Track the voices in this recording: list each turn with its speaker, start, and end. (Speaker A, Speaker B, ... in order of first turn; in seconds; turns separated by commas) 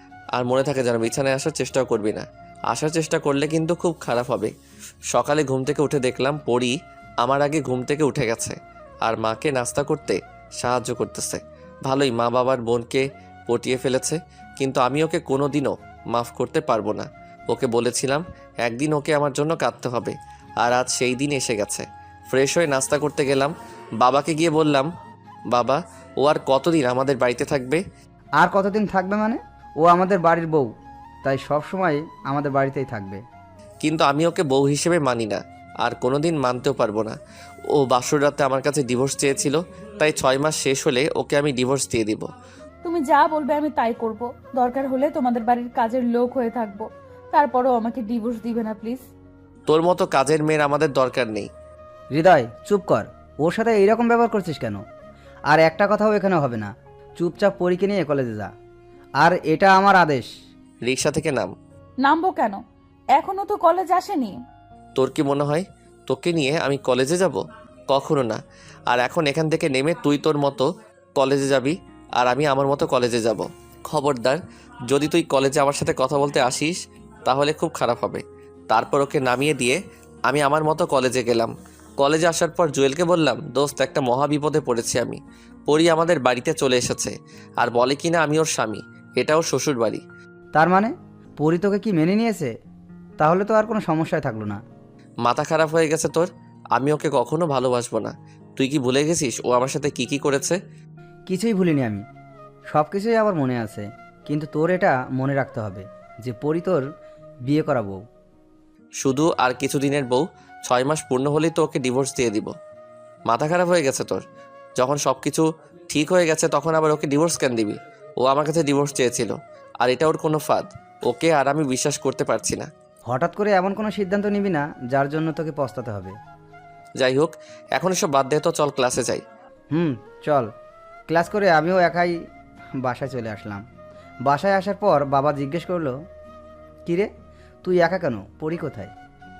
Speaker A: 0.3-4.5, Speaker A: 5.1-24.9, Speaker A: 25.5-27.8, Speaker B: 28.4-30.7, Speaker B: 31.2-33.2, Speaker A: 33.8-37.1, Speaker A: 37.7-42.3, Speaker C: 42.8-49.0, Speaker A: 49.7-51.5, Speaker B: 52.1-54.8, Speaker B: 55.5-58.5, Speaker B: 59.2-60.3, Speaker A: 60.8-61.5, Speaker C: 62.0-62.6, Speaker C: 63.1-64.3, Speaker A: 65.0-70.6, Speaker A: 71.1-90.0, Speaker B: 90.5-92.5, Speaker B: 93.2-94.6, Speaker A: 95.2-100.6, Speaker B: 101.3-102.0, Speaker B: 102.7-106.8, Speaker B: 107.5-108.0, Speaker A: 109.0-112.5, Speaker A: 113.3-114.2, Speaker A: 114.8-122.7, Speaker B: 123.1-126.1, Speaker A: 127.0-129.2, Speaker B: 129.7-130.5, Speaker B: 131.1-132.1, Speaker B: 132.8-133.6, Speaker B: 134.3-135.9, Speaker B: 137.6-138.9